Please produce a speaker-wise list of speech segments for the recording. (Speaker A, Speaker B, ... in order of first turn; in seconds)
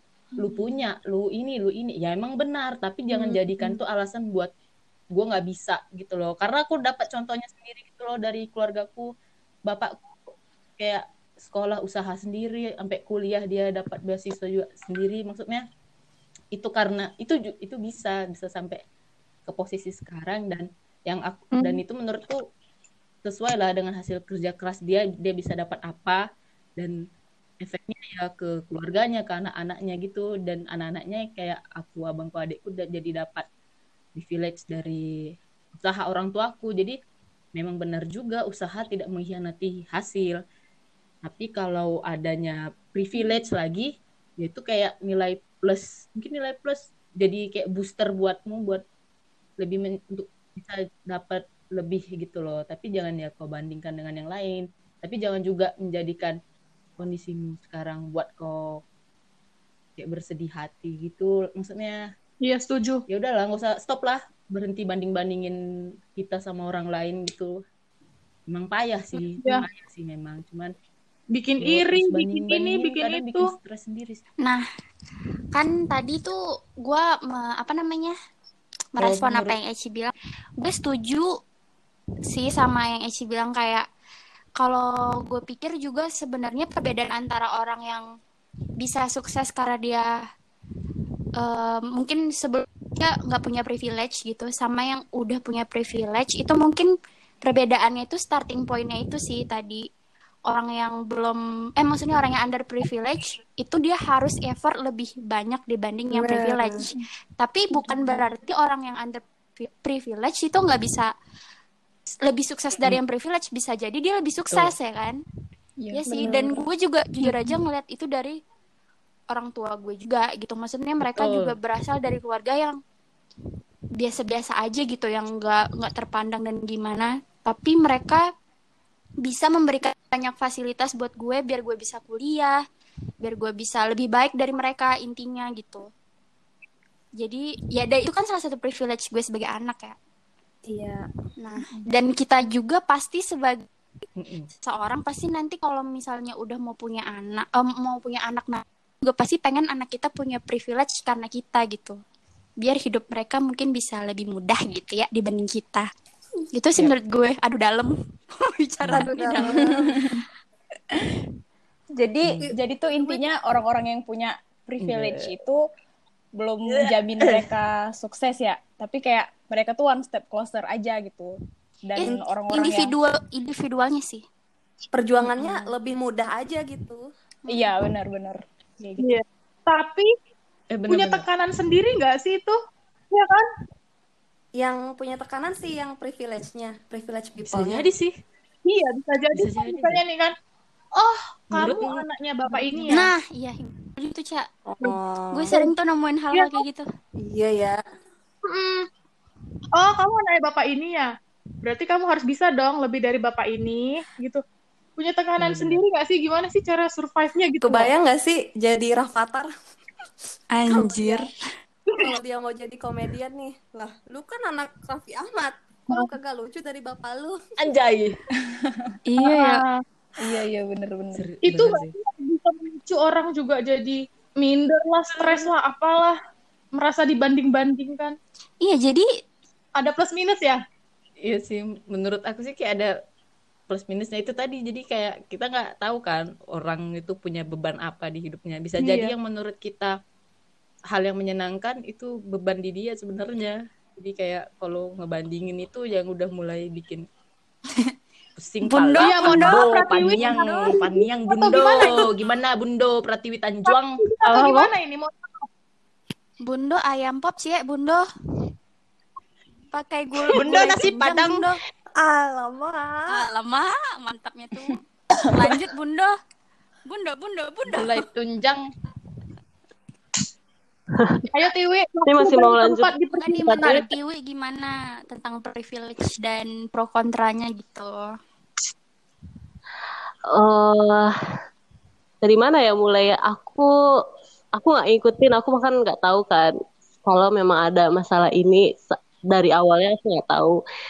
Speaker A: 0.4-0.8, 3.1-3.8, 107.8-108.2, 115.8-116.6, 117.2-117.5, 159.5-160.2, 161.9-165.6, 166.4-172.9, 177.5-179.1, 218.6-218.9, 220.2-221.2
Speaker B: 0.4-4.5, 5.1-9.1, 9.7-10.0, 10.8-15.6, 16.5-18.8, 19.5-22.4, 23.2-26.2, 27.6-33.5, 34.1-35.0, 35.8-37.0, 37.6-40.4, 41.2-48.8, 49.6-56.4, 57.0-58.8, 60.0-62.0, 63.1-65.6, 66.2-67.5, 68.5-70.7, 71.6-74.2, 79.0-79.5, 121.0-121.5, 144.2-144.5, 164.8-165.3, 166.8-167.5, 180.7-181.3, 187.4-188.1, 189.3-190.0, 191.5-192.9, 205.4-205.8, 217.6-218.2, 221.2-221.9, 231.2-232.9, 233.7-239.9, 240.9-247.1, 248.4-254.6, 260.3-261.5, 267.7-268.6
Speaker C: 62.4-63.0, 69.4-69.7, 71.3-73.5, 179.0-180.1, 180.9-182.6, 183.1-183.5, 188.7-190.3, 191.0-193.1, 196.3-196.6, 198.5-198.9, 199.8-201.1, 201.6-204.4, 205.0-207.9, 219.2-219.8, 221.4-226.2, 226.8-228.2, 229.8-230.6, 238.8-239.2, 249.0-252.1, 254.0-255.5, 271.3-273.8
Speaker D: 75.5-78.1, 78.9-81.3, 82.3-83.8, 84.6-88.0, 88.8-90.1, 91.4-96.9, 97.4-99.8, 100.5-111.1, 112.2-115.2, 116.0-118.4, 119.3-122.8, 124.0-128.2, 129.2-132.6, 133.2-135.9, 137.2-140.0, 141.4-143.7, 144.6-152.0, 152.6-155.9, 156.5-159.7, 172.0-174.2, 177.5-177.7, 192.9-194.5, 195.3-196.9, 210.5-211.3, 219.1-219.6, 228.6-229.1, 248.7-250.1, 256.4-258.1, 259.7-261.6, 263.1-264.8, 265.3-266.1, 266.9-268.0, 273.2-277.9
Speaker E: 106.1-106.8, 116.1-116.5, 140.7-141.1, 158.9-159.8, 174.9-177.1, 184.6-187.9, 194.7-195.6, 197.2-197.8, 207.6-209.5, 210.7-211.3, 212.0-217.4, 262.0-263.2
Speaker F: 270.9-271.3, 272.1-273.8, 280.3-281.1, 282.2-283.7, 284.6-286.5, 287.1-290.6